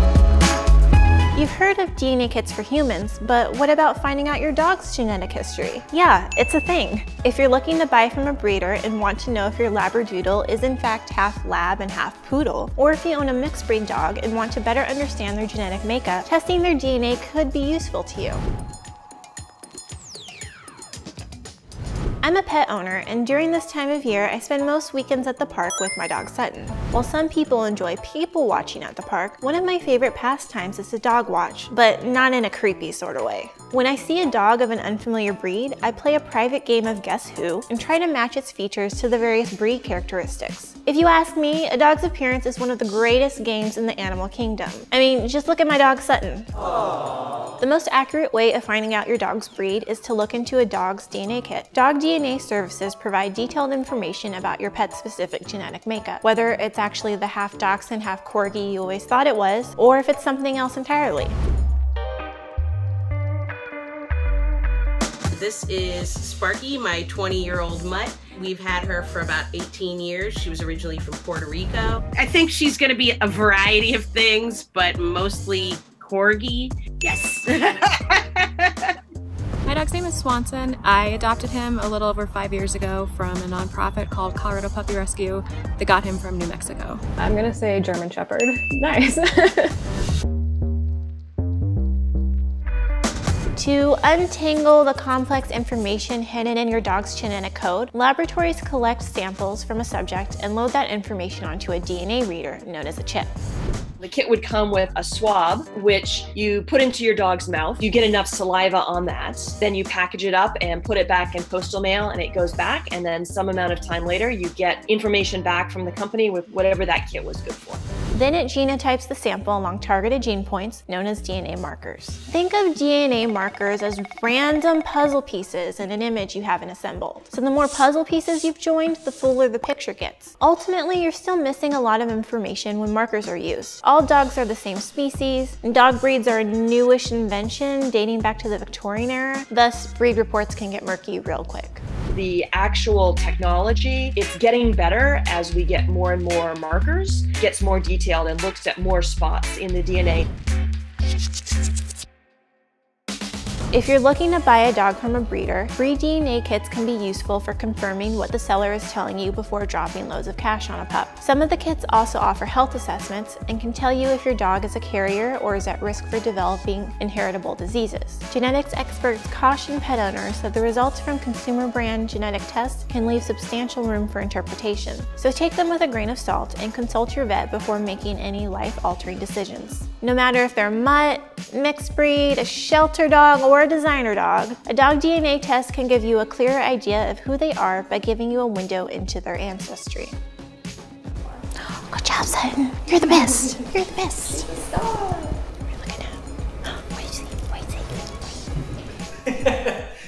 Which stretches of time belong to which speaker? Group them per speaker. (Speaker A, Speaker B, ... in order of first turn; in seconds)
Speaker A: 1.3-18.4, 22.2-46.5, 47.6-61.4, 93.5-103.3, 118.1-141.8, 153.7-190.2, 191.6-194.7, 195.6-198.1
Speaker B: 65.3-78.9
Speaker C: 79.7-87.0
Speaker D: 87.2-89.7, 194.8-195.1
Speaker E: 104.0-117.8, 142.1-150.3